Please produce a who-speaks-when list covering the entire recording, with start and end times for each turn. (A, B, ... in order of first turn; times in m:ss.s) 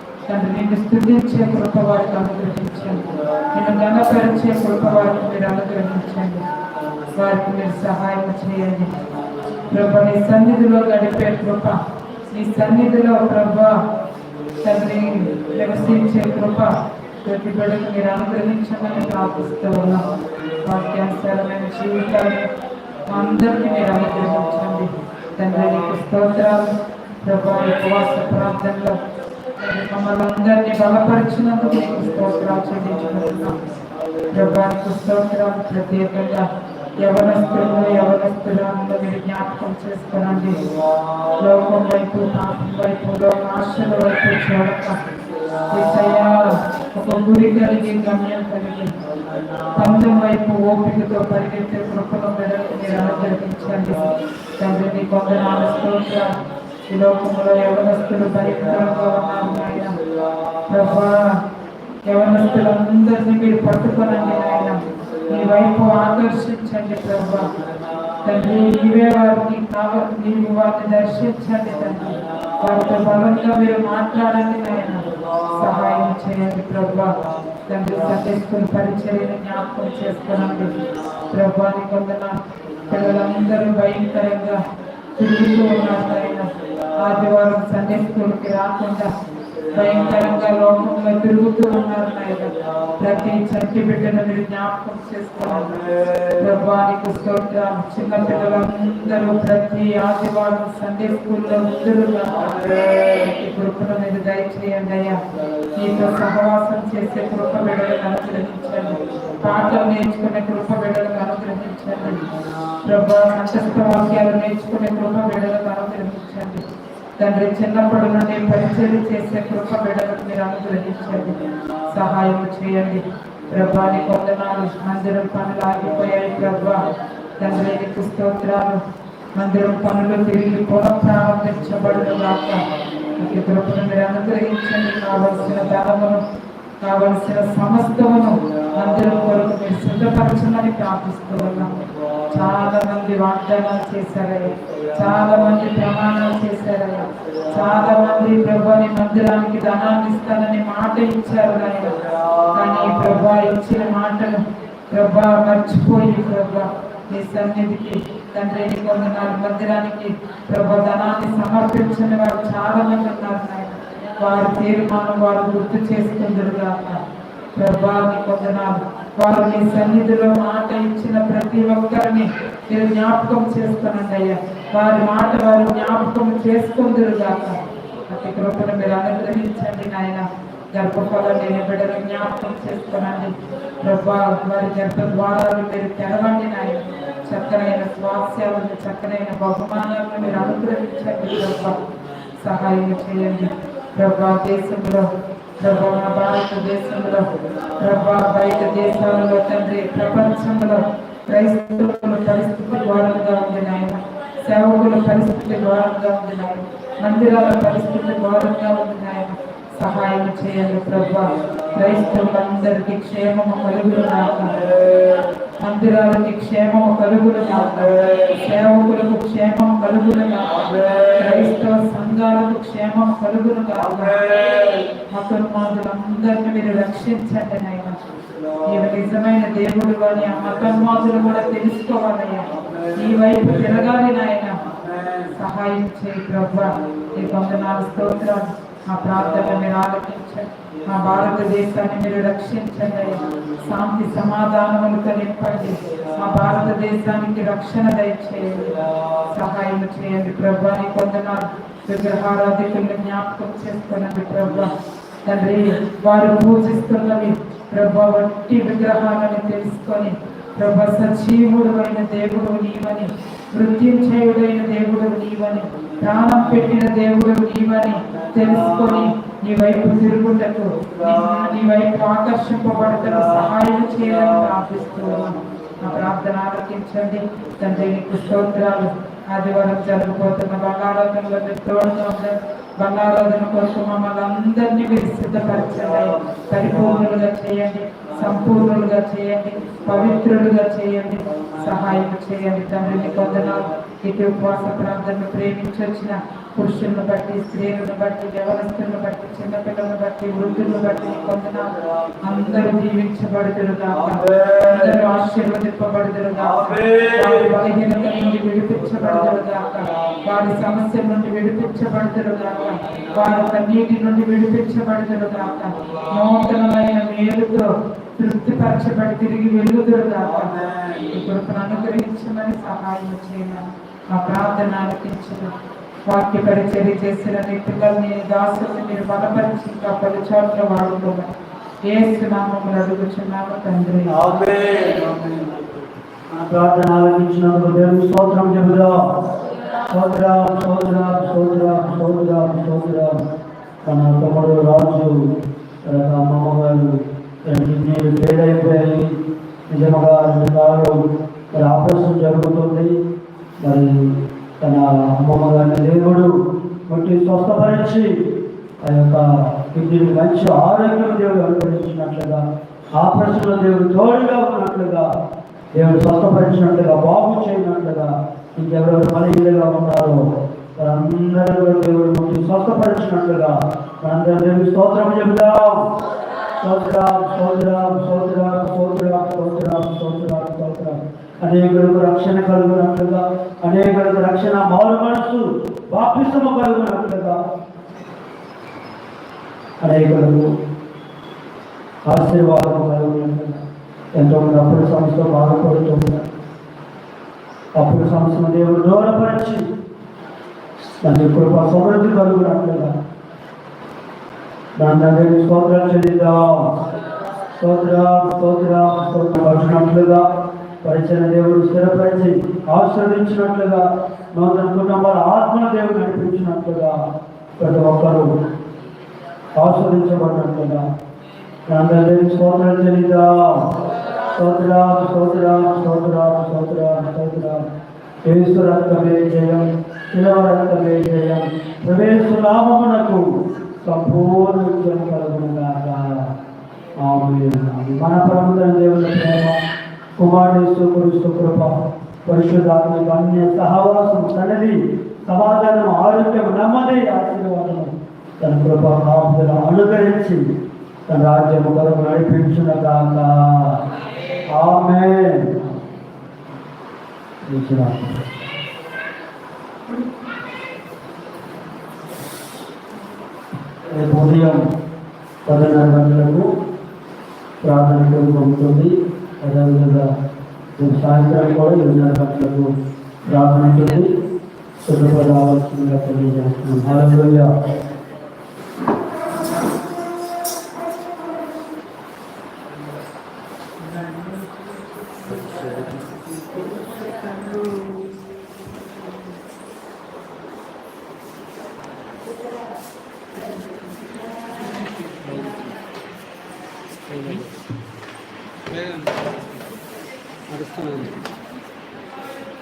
0:00.3-0:06.4 A
0:07.2-0:08.9 A
0:09.7-0:11.8 A
0:12.3-0:13.7 A
0:14.6-0:20.0 A
0:20.6-0:22.5 A
0:23.1-0:26.7 A
0:27.2-0:29.0 A
0:29.6-0:33.6 A
0:31.7-0:34.4 B
0:34.3-0:36.5 A
0:37.0-0:40.6 A
0:40.6-0:41.4 B
0:41.4-0:45.0 A
0:45.7-0:48.9 A
0:49.1-0:50.0 B
0:49.8-0:54.1 A
0:54.6-1:00.0 A
0:59.3-0:59.9 B
1:00.7-1:01.3 A
1:02.1-1:07.5 A
1:08.2-1:17.2 A
1:17.7-1:20.7 A
1:21.3-1:24.6 A
1:25.2-1:29.1 A
1:29.7-1:30.2 B
1:29.7-1:35.7 A
1:35.6-1:36.4 B
1:36.4-1:45.2 A
1:42.5-1:43.0 B
1:45.8-1:52.2 A
1:52.8-1:56.6 A
1:57.2-2:01.4 A
2:01.9-2:06.8 A
2:07.4-2:08.8 A
2:09.4-2:12.6 A
2:13.2-2:16.2 A
2:16.8-2:21.7 A
2:22.3-2:32.0 A
2:32.0-2:33.2 B
2:32.5-2:47.0 A
2:47.6-2:57.6 A
2:58.1-3:11.8 A
3:12.4-3:15.1 A
3:15.6-3:17.3 A
3:17.8-3:34.5 A
3:35.6-3:44.2 A
3:43.8-3:44.9 B
3:45.1-3:48.0 A
3:48.7-3:54.6 A
3:52.5-3:53.6 B
3:54.7-3:55.2 B
3:55.3-4:08.8 A
4:06.0-4:06.6 B
4:08.9-4:09.3 B
4:09.3-4:14.7 A
4:15.2-5:01.7 A
4:28.2-4:29.0 B
4:30.9-4:31.3 B
5:00.8-5:02.5 B
5:02.2-5:20.6 A
5:03.9-5:05.0 B
5:06.4-5:07.5 B
5:09.0-5:09.4 B
5:20.3-5:21.2 B
5:21.1-5:25.5 A
5:26.1-5:31.3 A
5:31.9-5:34.2 A
5:34.1-5:35.6 B
5:36.3-5:39.0 B
5:39.9-5:43.2 B
5:43.8-5:49.2 B
5:49.7-5:53.0 B
5:53.6-5:56.3 B
5:56.9-5:58.2 B
5:58.8-6:02.4 B
6:03.0-6:05.1 B
6:05.7-6:10.2 B
6:10.8-6:15.9 B
6:16.6-6:27.4 B
6:29.8-6:30.5 B
6:32.0-6:33.6 B
6:34.1-6:36.3 B
6:37.8-6:39.6 B
6:41.0-6:42.9 B
6:44.8-6:46.7 B
6:47.6-6:50.2 B
6:50.8-6:57.0 B
6:57.6-6:58.3 B
6:59.6-7:00.8 B
7:01.7-7:03.7 B
7:04.3-7:07.6 B
7:08.2-7:13.2 B
7:13.8-7:16.3 B
7:17.0-7:19.6 B
7:20.2-7:30.5 B
7:31.1-7:33.8 B
7:34.5-7:35.7 B
7:37.4-7:38.2 B
7:43.9-7:44.6 B
7:45.5-7:46.5 B
7:47.6-7:50.1 B
7:50.8-7:52.7 B
7:53.3-7:54.1 B
7:54.8-7:57.5 B
8:05.5-8:05.9 B
8:15.2-8:15.6 B
8:17.1-8:17.5 B
8:18.7-8:19.2 B
8:20.5-8:21.2 B